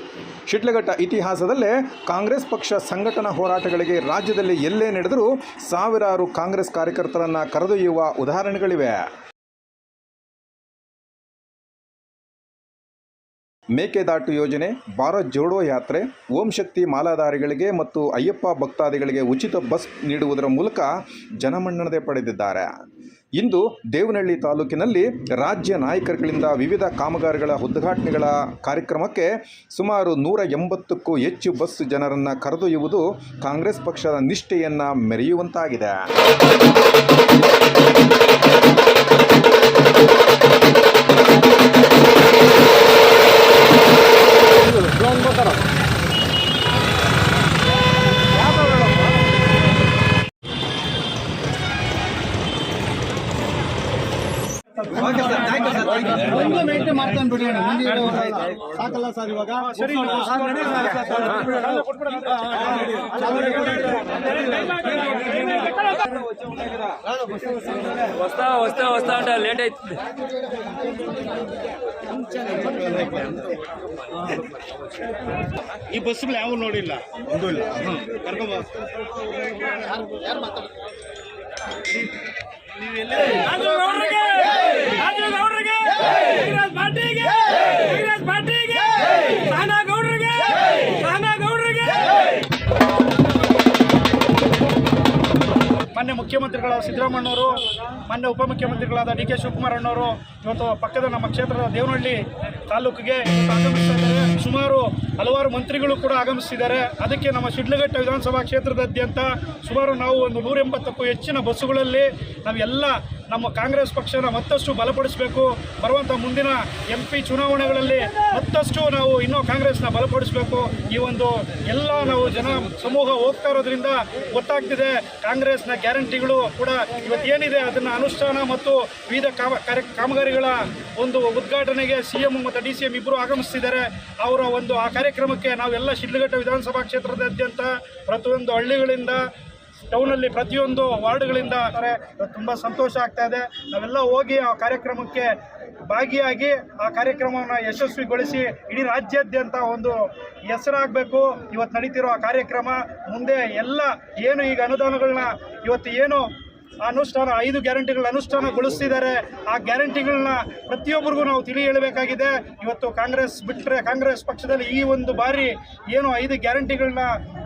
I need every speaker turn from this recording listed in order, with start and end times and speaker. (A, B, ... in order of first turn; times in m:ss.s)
0:00.5-0:09.0 A
0:13.8-0:22.7 A
0:23.4-0:36.0 A
0:57.6-0:58.4 B
0:59.6-1:00.8 C
1:08.1-1:10.0 B
1:15.9-1:17.6 B
1:23.3-1:27.9 B
1:28.1-1:28.5 C
1:28.8-1:29.8 B
1:29.7-1:30.3 C
1:30.4-1:30.8 B
1:31.0-1:31.9 C
1:35.9-2:19.3 C
2:19.9-2:47.2 C